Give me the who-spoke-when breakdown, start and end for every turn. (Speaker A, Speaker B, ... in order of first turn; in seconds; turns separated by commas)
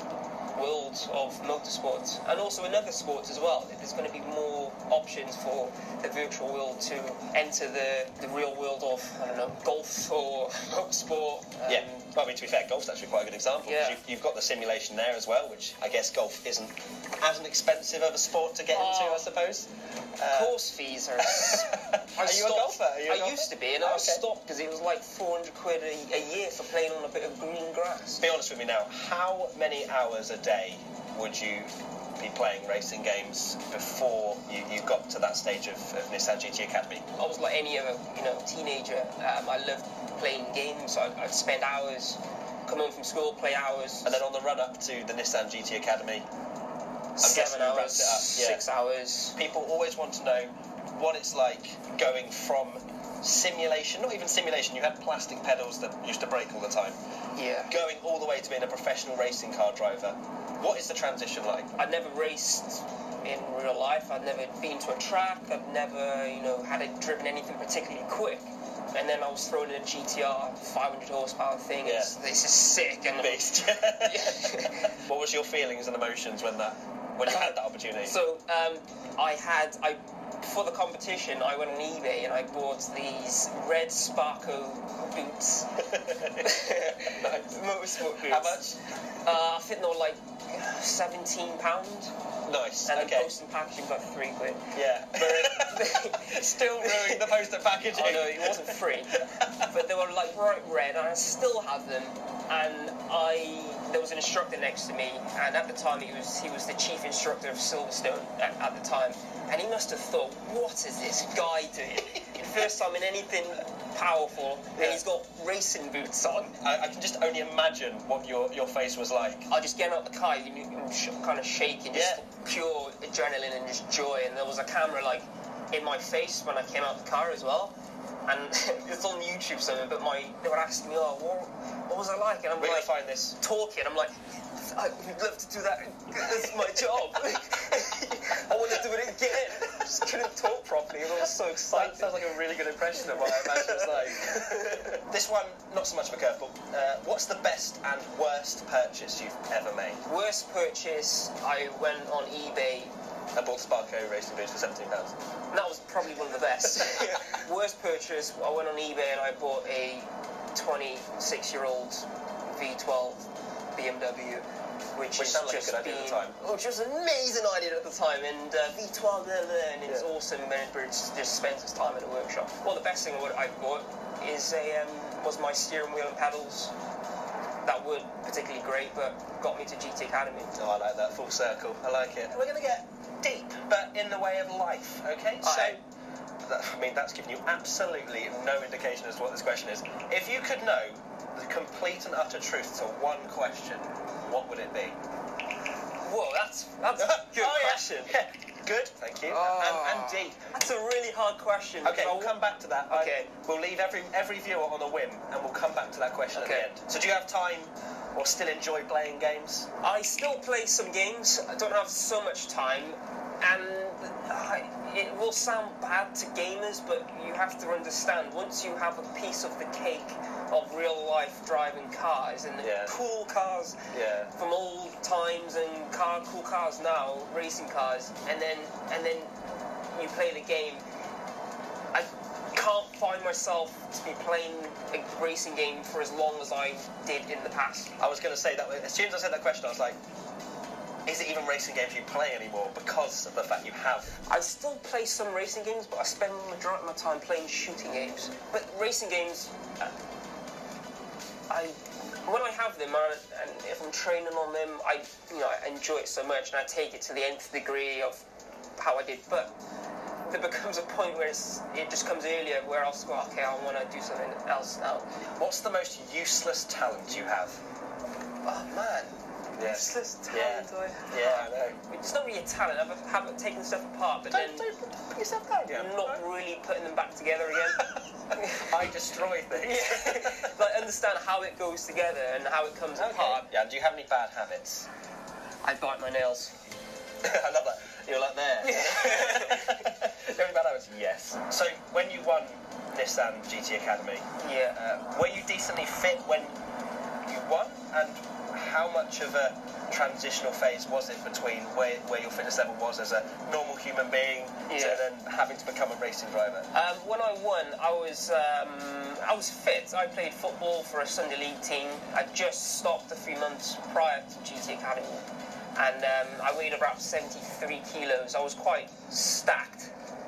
Speaker A: 0.5-11.9, Speaker B: 11.7-20.6, Speaker A: 13.7-14.0, Speaker A: 18.7-19.3, Speaker A: 20.3-28.2, Speaker B: 21.2-24.2, Speaker B: 28.2-37.0, Speaker A: 37.1-44.1, Speaker B: 44.0-46.2, Speaker A: 47.1-49.3, Speaker B: 47.2-48.6, Speaker B: 49.3-57.0, Speaker A: 57.4-57.7, Speaker B: 57.7-61.7, Speaker A: 61.8-74.9, Speaker B: 71.8-72.1, Speaker B: 73.2-78.2, Speaker A: 78.0-88.6, Speaker B: 85.8-88.8, Speaker A: 89.2-92.1, Speaker B: 92.5-93.3, Speaker A: 92.8-97.3, Speaker B: 94.7-99.7, Speaker A: 97.8-116.5, Speaker B: 116.6-119.5, Speaker A: 119.5-127.7, Speaker B: 121.9-122.2, Speaker A: 128.2-142.2, Speaker B: 132.6-133.4, Speaker B: 141.7-150.0, Speaker A: 143.0-145.0, Speaker A: 150.1-152.9, Speaker B: 153.3-155.2, Speaker A: 155.5-176.7, Speaker B: 165.2-166.4, Speaker A: 177.6-180.5, Speaker B: 180.5-185.8, Speaker A: 185.4-185.8, Speaker B: 186.4-195.0, Speaker A: 196.0-198.1, Speaker B: 196.9-200.4, Speaker A: 199.2-203.3, Speaker B: 201.8-209.7, Speaker A: 206.3-206.7, Speaker A: 209.8-229.4, Speaker B: 222.6-222.9, Speaker B: 223.9-224.3, Speaker A: 229.9-230.8, Speaker A: 231.9-237.9, Speaker B: 238.0-240.0, Speaker B: 241.1-244.1, Speaker A: 244.3-249.9, Speaker A: 251.5-258.2, Speaker A: 258.8-259.5, Speaker A: 260.2-265.1, Speaker B: 265.4-267.6, Speaker A: 268.4-274.6, Speaker B: 269.6-271.8, Speaker B: 274.3-276.2, Speaker A: 275.7-278.7, Speaker B: 278.5-280.5, Speaker A: 279.5-283.5, Speaker B: 283.0-284.9, Speaker A: 285.6-286.5, Speaker B: 287.2-296.6, Speaker A: 288.6-289.9, Speaker A: 294.4-294.8, Speaker B: 297.2-306.7, Speaker A: 304.7-305.0, Speaker A: 306.7-319.9